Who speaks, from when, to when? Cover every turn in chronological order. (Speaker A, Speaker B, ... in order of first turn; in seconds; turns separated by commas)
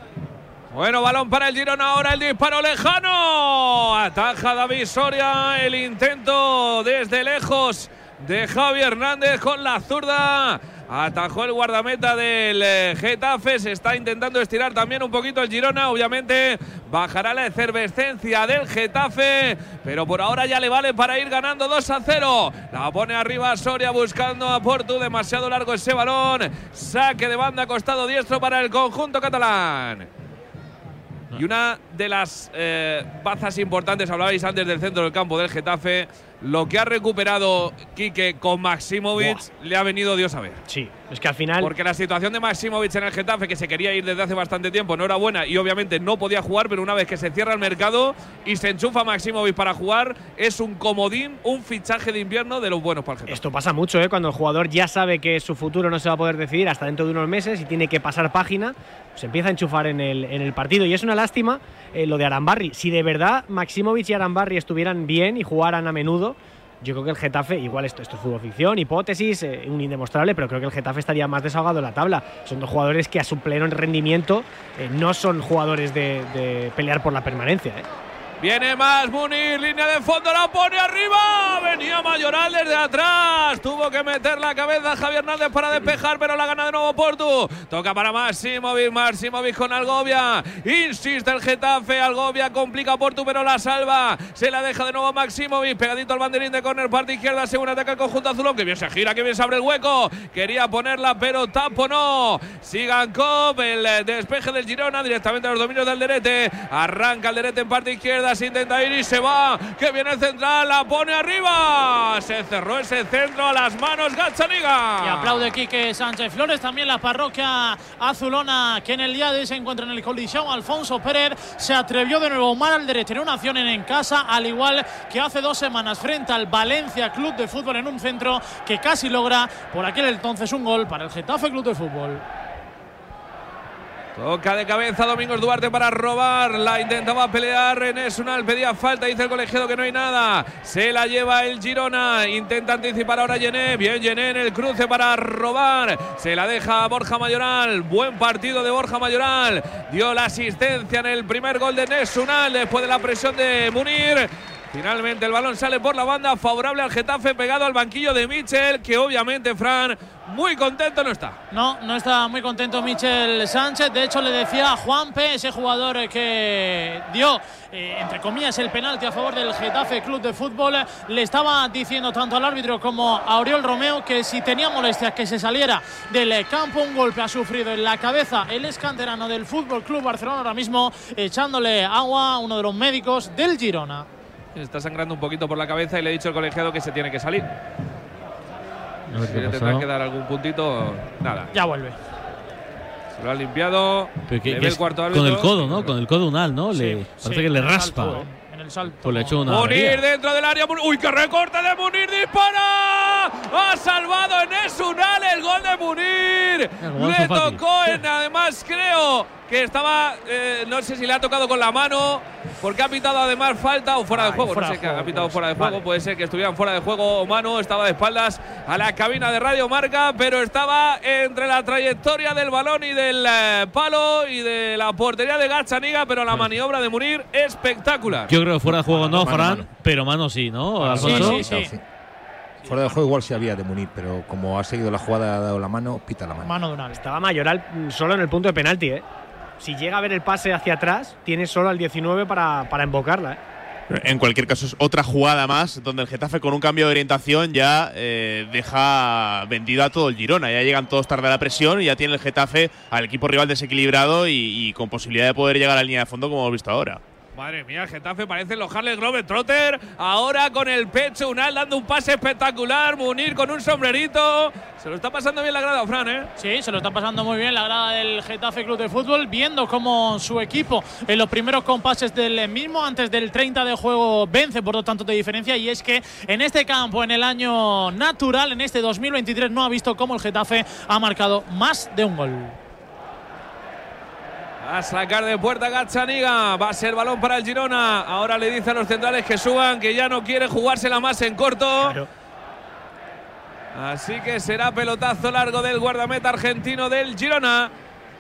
Speaker A: 0.7-30.1, Speaker A: 31.3-40.6, Speaker B: 39.2-39.4, Speaker B: 40.7-41.7, Speaker A: 41.6-53.4, Speaker B: 53.3-77.9, Speaker A: 78.4-115.5, Speaker C: 115.0-132.2, Speaker A: 134.2-161.4, Speaker C: 161.5-184.1, Speaker A: 184.6-187.5, Speaker D: 189.1-189.9, Speaker A: 189.2-191.5, Speaker C: 191.5-192.0, Speaker A: 193.2-195.9, Speaker D: 194.3-198.2, Speaker C: 196.7-199.6, Speaker D: 199.0-200.0, Speaker A: 199.5-228.3, Speaker D: 206.8-207.6, Speaker B: 214.1-214.8, Speaker C: 214.6-215.2, Speaker D: 228.3-231.5, Speaker E: 228.7-229.7, Speaker E: 230.8-231.8, Speaker C: 231.0-231.7, Speaker E: 232.6-236.5, Speaker C: 236.4-237.0, Speaker B: 237.0-239.0, Speaker B: 239.6-243.4, Speaker F: 243.9-257.0, Speaker A: 257.4-266.3, Speaker C: 266.4-282.6, Speaker A: 284.6-292.0, Speaker B: 291.8-292.1, Speaker A: 293.7-297.7